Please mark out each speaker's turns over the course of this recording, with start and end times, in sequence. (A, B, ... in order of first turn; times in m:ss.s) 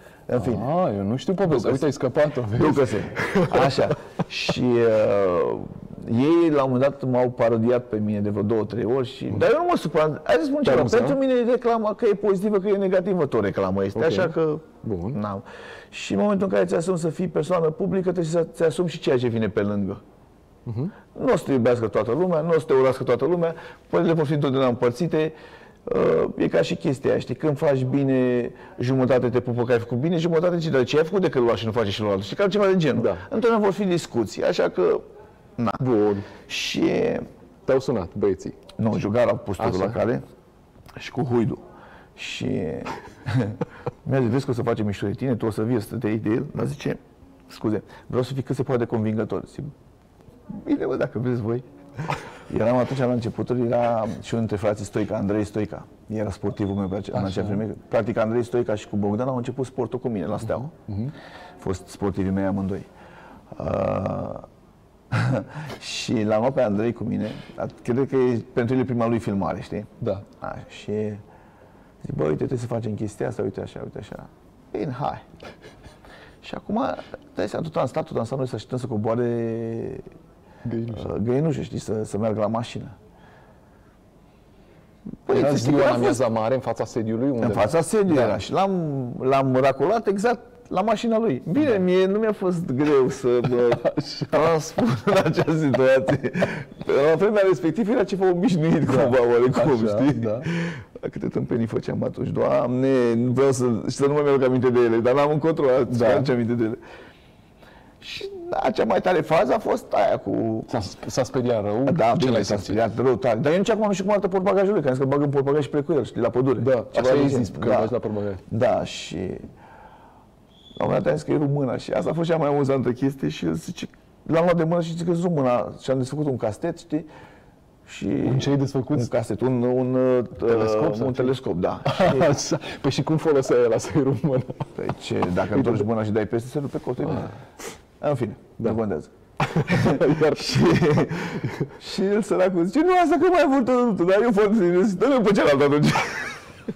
0:00.3-0:00.7 A
0:00.4-0:03.9 B
0:01.4-0:01.9 A
0:02.5-0:20.0 A
0:10.6-0:11.2 B
0:13.9-0:15.2 B
0:20.6-0:20.9 B
0:21.1-0:35.0 A
0:32.9-0:33.2 B
0:35.8-0:36.3 B
0:36.4-0:37.2 A
0:37.6-0:38.6 B
0:38.8-0:40.2 A
0:39.6-0:40.0 B
0:41.0-0:41.6 A
0:42.2-0:49.7 A
0:50.5-0:51.6 A
0:52.3-1:00.7 A
0:57.1-0:57.6 B
1:00.4-1:01.1 B
1:01.6-1:02.9 A
1:03.5-1:04.5 A
1:05.1-1:11.2 A
1:12.0-1:15.2 A
1:16.4-1:20.0 A
1:20.7-1:21.1 B
1:20.9-1:23.0 A
1:25.2-1:26.2 A
1:25.3-1:28.4 B
1:27.4-1:46.8 A
1:33.8-1:34.5 B
1:38.9-1:40.5 B
1:45.9-1:46.3 B
1:48.0-1:50.7 A
1:50.7-1:52.8 B
1:51.8-1:57.9 A
1:56.6-1:58.4 B
1:58.5-1:59.4 A
2:00.8-2:07.1 A
2:07.8-2:12.3 A
2:08.2-2:09.1 B
2:10.4-2:14.7 B
2:14.8-2:17.4 A
2:15.5-2:15.8 B
2:18.0-2:26.4 A
2:19.4-2:20.8 B
2:21.4-2:21.7 B